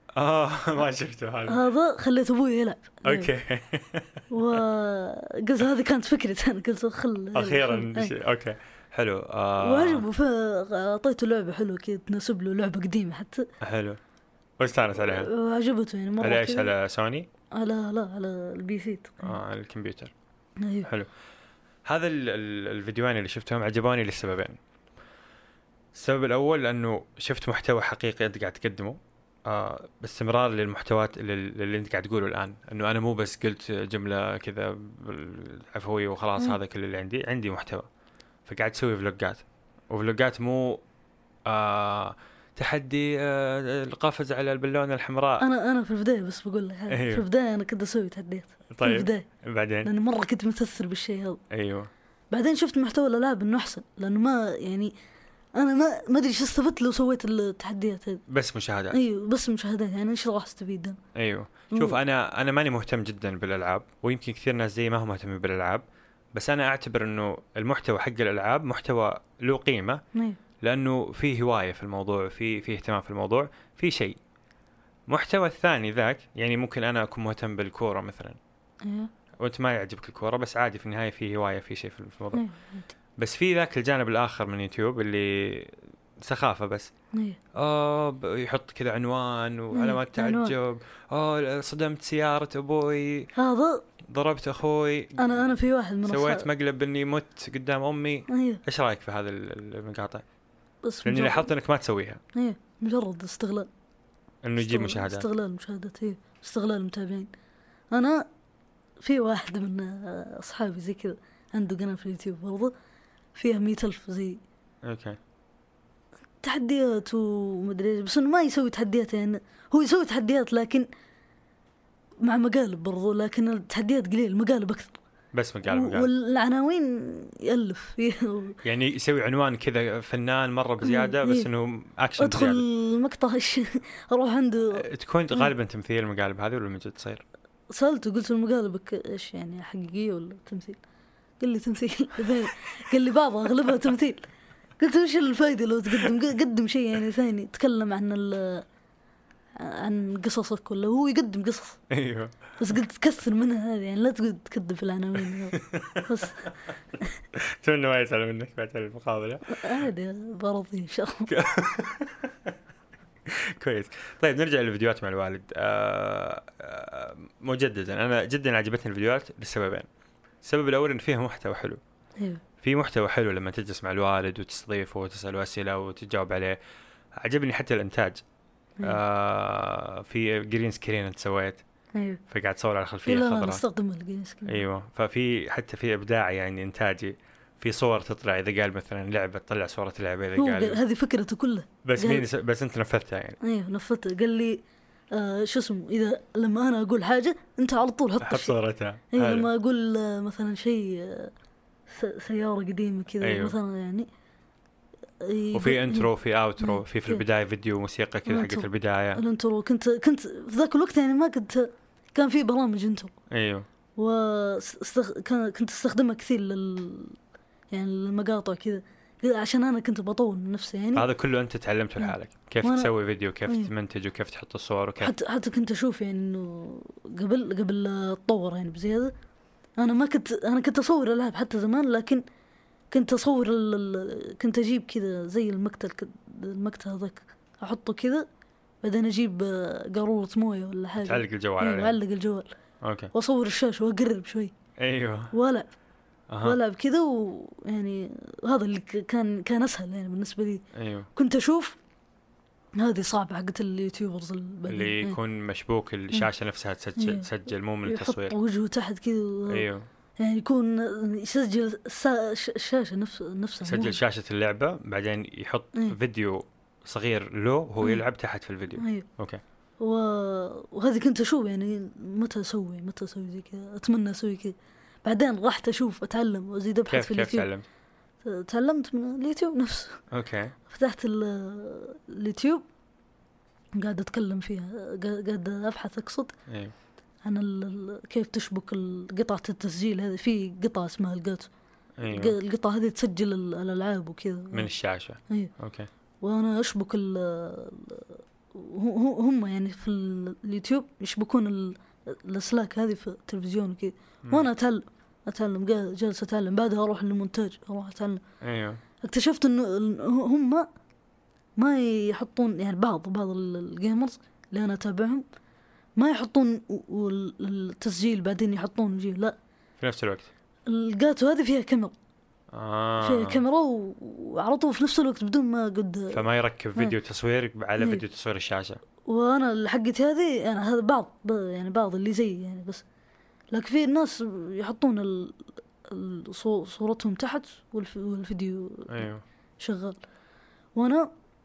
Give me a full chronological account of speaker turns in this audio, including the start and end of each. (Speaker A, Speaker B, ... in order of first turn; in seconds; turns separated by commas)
Speaker A: 0.1-1.6, Speaker B: 1.4-3.3, Speaker A: 3.0-4.2, Speaker B: 4.3-8.1, Speaker A: 7.3-10.1, Speaker B: 9.6-13.5, Speaker A: 13.6-14.0, Speaker A: 14.6-15.3, Speaker B: 14.9-16.7, Speaker A: 16.2-17.3, Speaker B: 17.5-19.3, Speaker A: 19.2-20.1, Speaker B: 20.6-20.9, Speaker A: 21.8-24.6, Speaker A: 25.9-37.9, Speaker A: 38.5-40.8, Speaker A: 41.5-45.5, Speaker B: 45.4-49.2, Speaker A: 46.9-47.2, Speaker A: 48.7-49.9, Speaker B: 49.8-51.4, Speaker A: 51.5-51.9, Speaker B: 52.3-54.9, Speaker B: 55.5-58.2, Speaker A: 58.3-59.0, Speaker B: 58.9-61.0, Speaker A: 61.1-70.0, Speaker B: 61.7-62.0, Speaker A: 70.6-74.2, Speaker A: 75.1-78.4, Speaker B: 78.8-79.1, Speaker A: 79.4-82.4, Speaker B: 82.3-82.9, Speaker A: 83.2-86.9, Speaker B: 87.1-87.4, Speaker A: 87.5-93.3, Speaker B: 89.7-90.5, Speaker B: 93.3-93.8, Speaker A: 94.0-95.4, Speaker B: 95.2-96.5, Speaker A: 96.0-100.2, Speaker B: 98.3-98.6, Speaker B: 100.8-101.5, Speaker A: 101.0-102.2, Speaker B: 102.3-103.7, Speaker A: 104.4-105.3, Speaker B: 104.6-107.3, Speaker B: 107.9-108.2, Speaker B: 109.0-112.7, Speaker B: 113.3-114.4, Speaker A: 114.8-115.2, Speaker B: 116.4-120.9, Speaker B: 122.2-125.0, Speaker A: 125.3-126.1, Speaker B: 125.7-128.6, Speaker A: 128.6-132.6, Speaker B: 130.8-131.5, Speaker B: 132.2-135.5, Speaker A: 134.7-137.2, Speaker B: 137.7-140.8, Speaker B: 141.4-144.2, Speaker B: 144.8-148.6, Speaker B: 149.6-151.8, Speaker A: 151.9-152.5, Speaker B: 152.6-157.1, Speaker A: 155.5-156.2, Speaker A: 157.3-159.8, Speaker B: 159.5-161.3, Speaker A: 161.3-162.5, Speaker A: 163.2-169.9, Speaker A: 170.4-171.8, Speaker A: 172.6-176.6, Speaker A: 177.1-178.2, Speaker A: 178.8-181.6, Speaker B: 181.9-182.2, Speaker A: 182.3-183.6, Speaker B: 183.0-184.6, Speaker A: 184.4-190.8, Speaker B: 190.3-192.2, Speaker A: 191.8-193.4, Speaker B: 193.4-198.6, Speaker A: 198.2-199.5, Speaker B: 199.1-201.3, Speaker B: 201.9-204.1, Speaker A: 203.2-203.6, Speaker B: 205.2-207.2, Speaker A: 205.5-209.2, Speaker B: 208.3-213.1, Speaker A: 213.3-213.7, Speaker B: 214.0-217.2, Speaker B: 217.7-221.1, Speaker A: 220.9-225.1, Speaker B: 222.0-222.9, Speaker B: 223.4-223.7, Speaker B: 225.0-229.1, Speaker B: 229.8-232.2, Speaker B: 232.9-238.2, Speaker B: 238.8-242.5, Speaker A: 241.0-242.0, Speaker A: 242.8-243.1, Speaker B: 243.1-244.5, Speaker A: 244.8-245.3, Speaker B: 245.3-245.7, Speaker A: 246.3-246.6, Speaker B: 246.4-250.6, Speaker A: 250.7-251.1, Speaker B: 251.1-251.8, Speaker B: 252.7-255.2, Speaker A: 254.7-258.3, Speaker B: 257.0-257.3, Speaker B: 257.8-259.7, Speaker A: 259.5-259.9, Speaker B: 260.2-264.0, Speaker A: 263.6-269.4, Speaker B: 268.7-269.1, Speaker B: 269.8-277.5, Speaker A: 276.9-277.6, Speaker B: 278.2-280.0, Speaker A: 280.1-280.5, Speaker B: 280.7-282.6, Speaker B: 283.8-286.3, Speaker A: 286.5-286.7, Speaker B: 287.2-291.5, Speaker A: 292.0-292.4, Speaker B: 292.1-294.7, Speaker A: 294.5-295.9, Speaker B: 296.2-308.2, Speaker A: 308.4-308.8, Speaker B: 309.0-310.7, Speaker B: 311.6-315.2, Speaker B: 316.0-319.4, Speaker A: 319.8-320.3, Speaker B: 320.7-321.9, Speaker A: 322.5-323.4, Speaker B: 323.0-326.2, Speaker A: 326.1-328.8, Speaker B: 327.8-328.0, Speaker B: 329.1-332.8, Speaker B: 333.5-339.1, Speaker A: 338.9-339.2, Speaker B: 339.6-340.0, Speaker B: 340.7-341.1